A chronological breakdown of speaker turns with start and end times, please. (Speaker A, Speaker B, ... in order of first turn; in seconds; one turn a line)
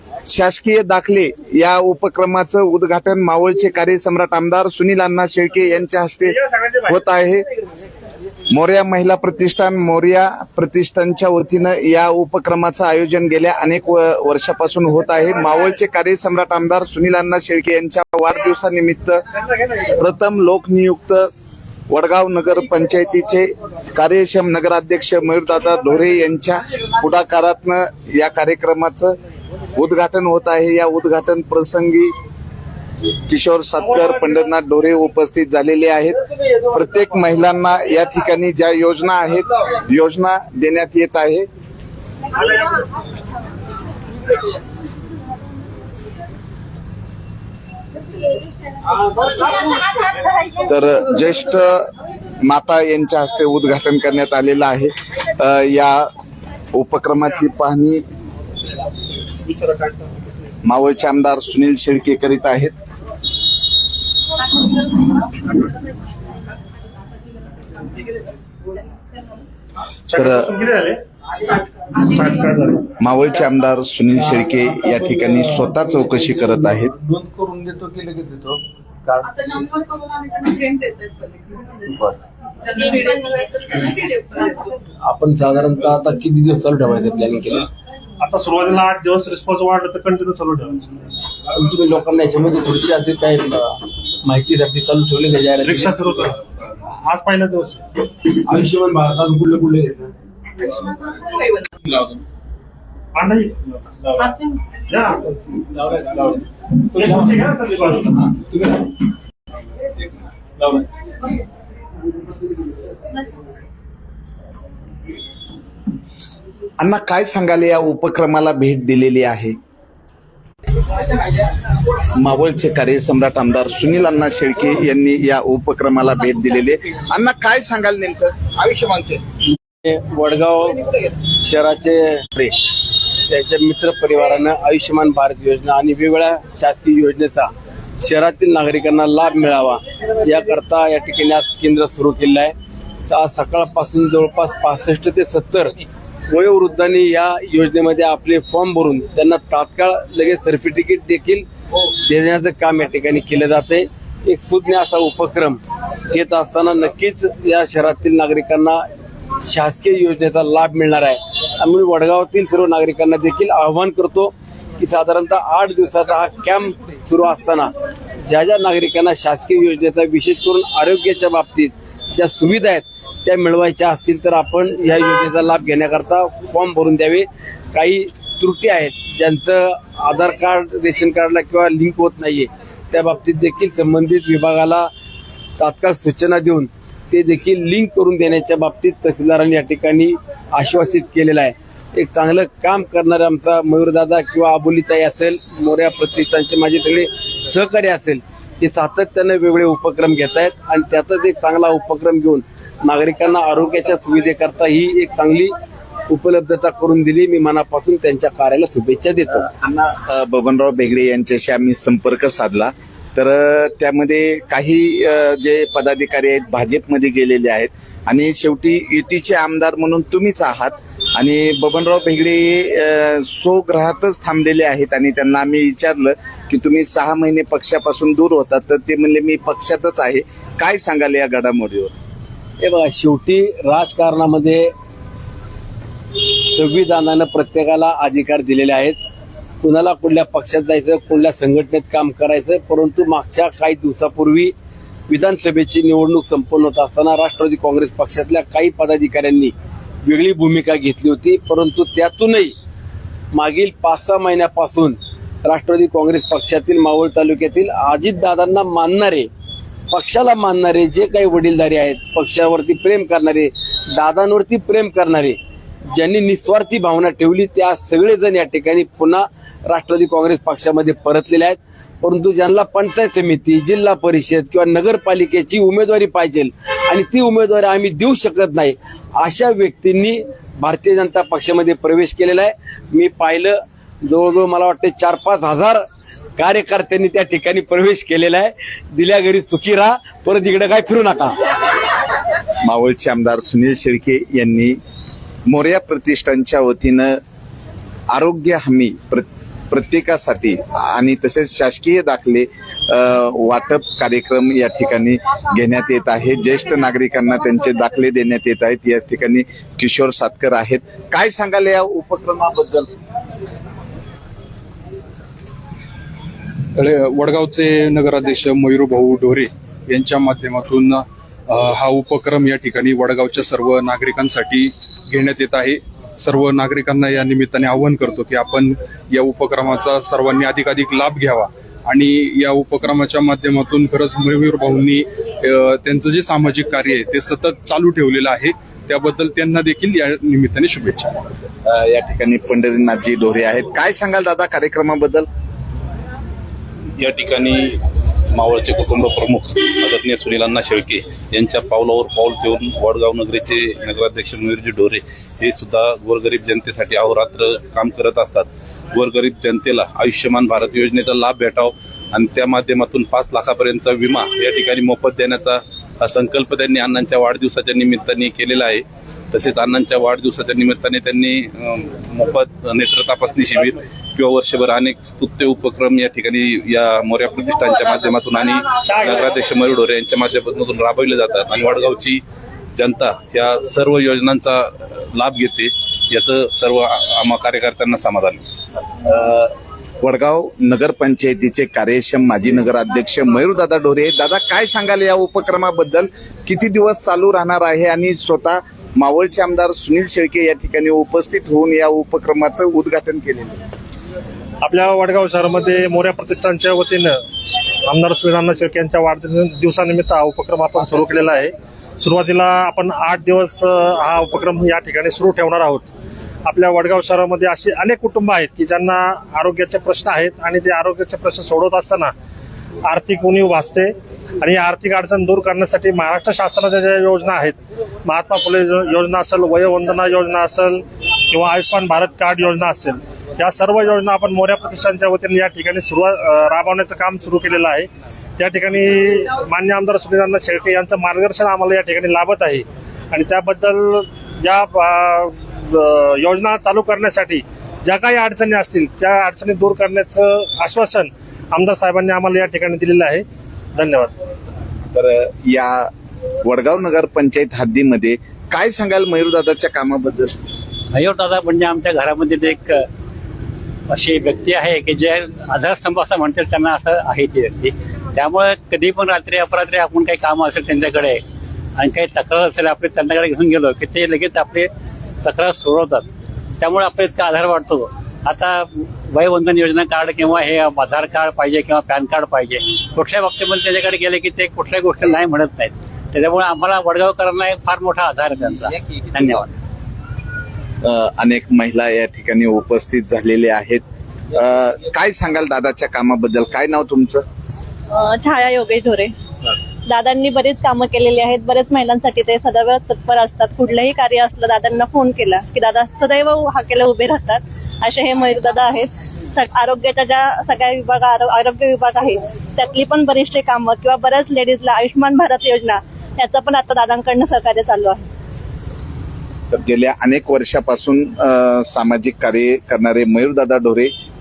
Speaker A: 0.3-7.5
Speaker A: 8.5-19.2
Speaker A: 19.9-21.3
Speaker A: 21.9-29.1
Speaker A: 29.7-32.1
Speaker A: 33.3-36.2
Speaker A: 36.7-41.5
Speaker A: 50.6-51.9
Speaker A: 52.4-56.1
Speaker A: 56.7-58.0
Speaker B: 59.5-60.0
Speaker A: 60.6-62.7
Speaker B: 70.1-71.0
Speaker A: 70.2-70.5
Speaker B: 72.0-72.9
Speaker A: 73.0-76.9
Speaker C: 74.2-79.7
Speaker C: 81.9-82.2
Speaker C: 83.6-87.7
Speaker B: 88.2-90.9
Speaker C: 91.5-96.0
Speaker B: 95.6-96.4
Speaker B: 97.0-97.8
Speaker C: 98.4-100.1
Speaker B: 103.2-105.4
Speaker B: 106.9-108.2
Speaker C: 108.3-108.7
Speaker A: 116.8-119.6
Speaker A: 122.1-129.2
Speaker C: 129.8-132.6
Speaker C: 133.3-142.5
Speaker C: 143.1-145.7
Speaker C: 146.3-158.8
Speaker C: 159.4-167.7
Speaker C: 168.2-184.9
Speaker C: 185.6-205.5
Speaker C: 206.1-209.5
Speaker A: 209.4-231.9
Speaker C: 232.6-234.7
Speaker C: 236.2-239.0
Speaker C: 239.6-244.6
Speaker C: 245.1-252.6
Speaker C: 253.3-259.3
Speaker C: 259.9-285.8
Speaker C: 286.4-291.4
Speaker A: 292.6-294.8
Speaker A: 295.5-297.2
Speaker A: 298.1-312.9
Speaker D: 316.8-341.2
Speaker A: 341.7-345.3
Speaker E: 347.0-347.8
Speaker E: 348.3-382.2
Speaker B: 378.8-379.3
Speaker E: 382.8-388.4
Speaker A: 389.0-403.6
Speaker B: 404.6-407.2
Speaker B: 407.9-415.9
Speaker B: 416.5-422.1
Speaker B: 422.9-437.9
Speaker B: 438.4-453.2
Speaker B: 453.8-454.1
Speaker A: 454.9-455.9
Speaker A: 456.4-460.4
Speaker F: 460.9-462.9
Speaker F: 463.9-471.2
Speaker F: 471.8-474.7
Speaker F: 475.2-476.1
Speaker F: 476.6-489.5
Speaker A: 490.8-497.2
Speaker G: 497.9-499.1
Speaker G: 499.9-518.1
Speaker A: 519.5-523.9